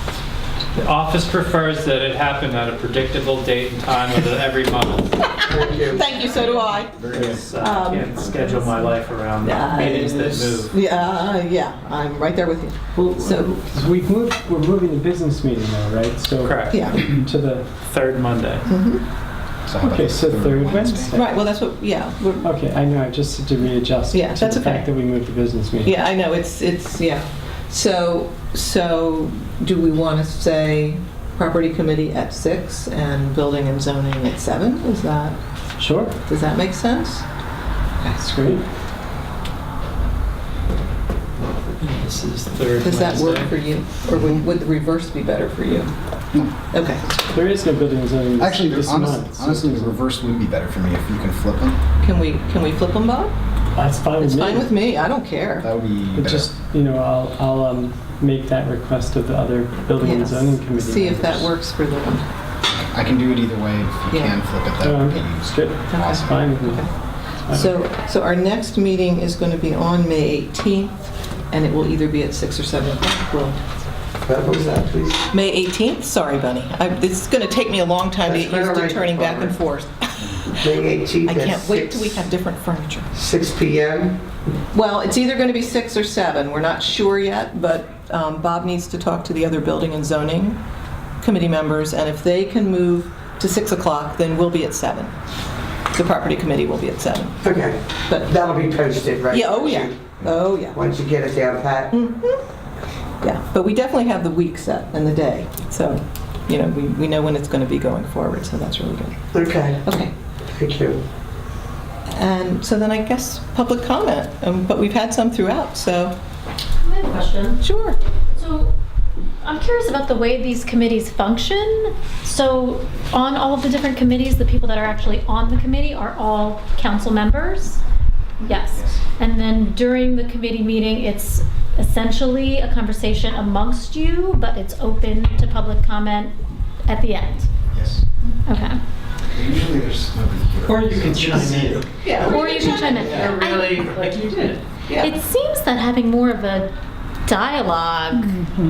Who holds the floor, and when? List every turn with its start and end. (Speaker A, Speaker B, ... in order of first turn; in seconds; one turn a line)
Speaker A: 0.7-5.4
Speaker B: 5.3-8.6
Speaker C: 5.5-6.1
Speaker A: 6.1-10.7
Speaker D: 7.0-7.4
Speaker B: 9.4-13.5
Speaker E: 12.9-17.7
Speaker A: 16.4-17.1
Speaker B: 16.7-17.0
Speaker A: 17.7-18.7
Speaker B: 18.7-19.0
Speaker D: 19.6-21.1
Speaker E: 19.8-21.4
Speaker B: 21.1-22.5
Speaker E: 22.4-25.9
Speaker B: 24.1-24.9
Speaker B: 25.8-35.4
Speaker E: 35.8-36.1
Speaker B: 36.2-37.2
Speaker E: 38.1-38.6
Speaker A: 41.8-43.5
Speaker B: 42.8-45.9
Speaker D: 44.1-44.4
Speaker B: 46.7-47.0
Speaker E: 47.3-50.0
Speaker D: 48.4-51.8
Speaker B: 52.0-53.3
Speaker E: 53.7-54.7
Speaker B: 54.2-55.7
Speaker D: 55.6-56.5
Speaker E: 56.2-61.5
Speaker B: 60.0-62.2
Speaker D: 62.7-66.4
Speaker B: 64.1-64.3
Speaker E: 64.8-66.8
Speaker B: 65.9-66.9
Speaker E: 67.5-67.7
Speaker B: 67.5-73.6
Speaker C: 74.2-75.2
Speaker B: 75.3-80.7
Speaker C: 78.2-79.5
Speaker C: 80.5-82.2
Speaker B: 81.2-83.1
Speaker C: 83.1-84.2
Speaker B: 84.7-90.6
Speaker B: 91.2-95.1
Speaker B: 95.9-97.4
Speaker C: 97.4-101.9
Speaker B: 98.1-98.3
Speaker B: 99.3-100.8
Speaker B: 101.9-102.4
Speaker B: 103.2-109.3
Speaker C: 109.3-109.8
Speaker B: 109.8-110.1
Speaker C: 110.5-111.0
Speaker B: 112.1-116.1
Speaker F: 116.8-117.7
Speaker B: 117.6-118.0
Speaker F: 118.3-118.8
Speaker F: 119.4-127.8
Speaker F: 128.4-137.5
Speaker D: 137.7-138.0
Speaker F: 138.4-138.8
Speaker D: 139.3-141.8
Speaker E: 140.7-142.2
Speaker B: 142.0-143.0
Speaker F: 142.2-143.6
Speaker A: 142.3-144.6
Speaker D: 142.9-143.3
Speaker B: 144.9-145.1
Speaker F: 145.0-148.4